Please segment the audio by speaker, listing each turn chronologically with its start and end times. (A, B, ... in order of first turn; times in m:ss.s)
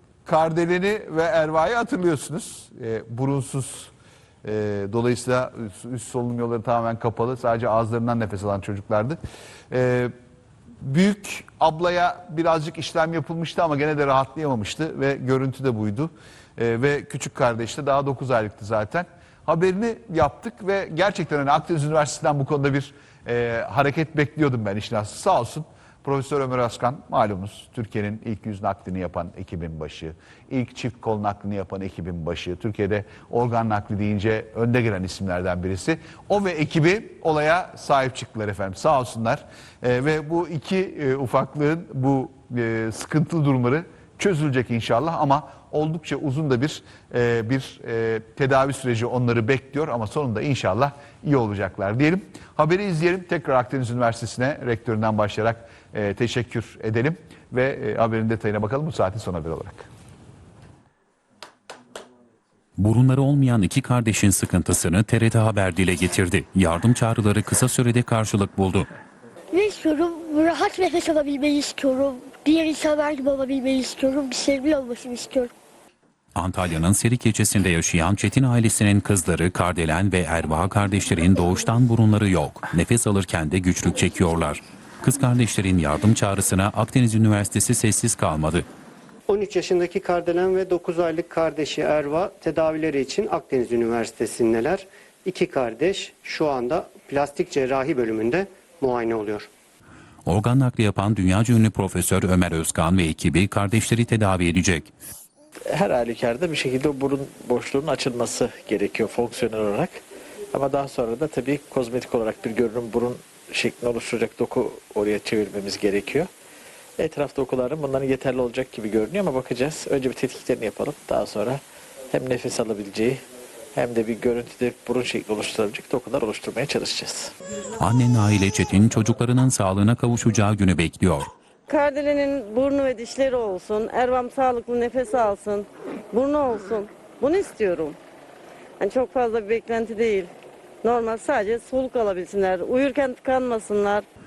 0:00.2-0:03.9 A
0:04.4-0:09.2 A
0:09.7-0:10.1 A
0:10.8-0:59.9 A
1:02.8-1:08.9 B
1:09.5-1:15.5 C
1:16.3-1:28.6 B
1:29.3-1:39.5 D
1:40.2-1:44.9 B
1:45.7-1:50.0 E
1:50.5-1:56.3 E
1:57.0-2:03.2 E
2:03.7-2:07.3 E
2:07.8-2:11.3 B
2:11.7-2:18.0 F
2:18.8-2:20.3 F
2:20.8-2:24.0 F